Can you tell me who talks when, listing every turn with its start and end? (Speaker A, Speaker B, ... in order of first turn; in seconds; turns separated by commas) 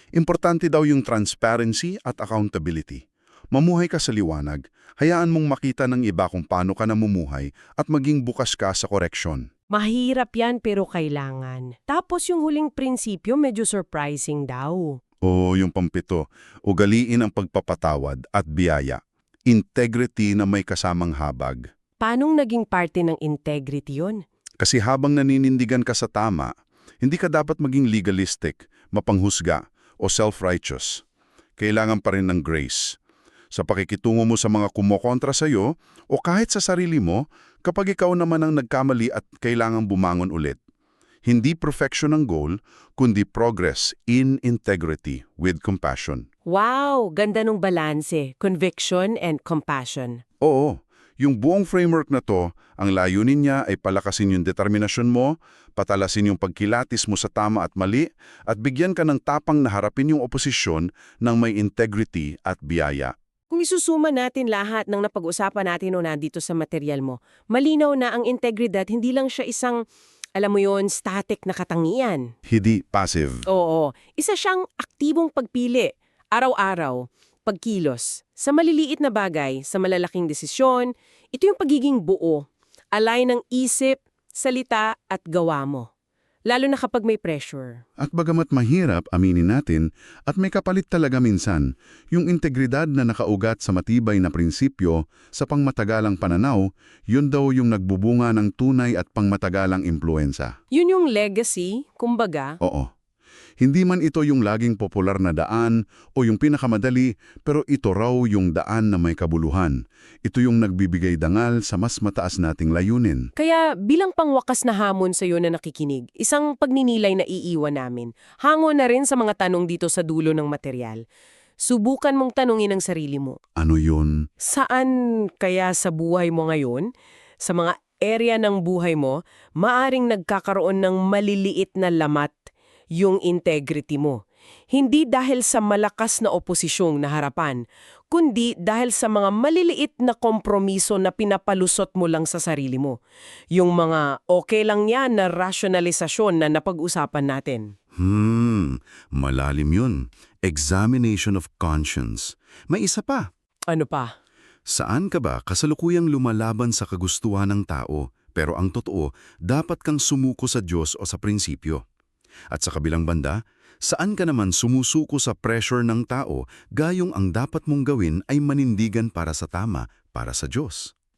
Speaker A: 0.1-9.5, Speaker B: 9.7-15.0, Speaker A: 15.2-21.7, Speaker B: 22.0-24.2, Speaker A: 24.6-31.0, Speaker A: 31.6-33.0, Speaker A: 33.5-40.6, Speaker A: 41.3-46.3, Speaker B: 46.5-50.2, Speaker A: 50.4-63.1, Speaker B: 63.5-69.8, Speaker B: 70.4-72.3, Speaker A: 72.5-73.4, Speaker B: 73.5-85.9, Speaker B: 86.5-87.8, Speaker A: 88.0-100.5, Speaker B: 100.7-102.6, Speaker A: 102.6-102.9, Speaker A: 103.6-113.3, Speaker B: 113.4-121.0, Speaker B: 121.6-123.4, Speaker A: 123.6-124.2, Speaker B: 124.4-126.9, Speaker B: 127.4-134.2, Speaker B: 134.7-143.0, Speaker B: 143.5-147.7, Speaker A: 148.0-153.3, Speaker B: 153.7-154.1, Speaker A: 154.7-161.8, Speaker A: 162.5-170.9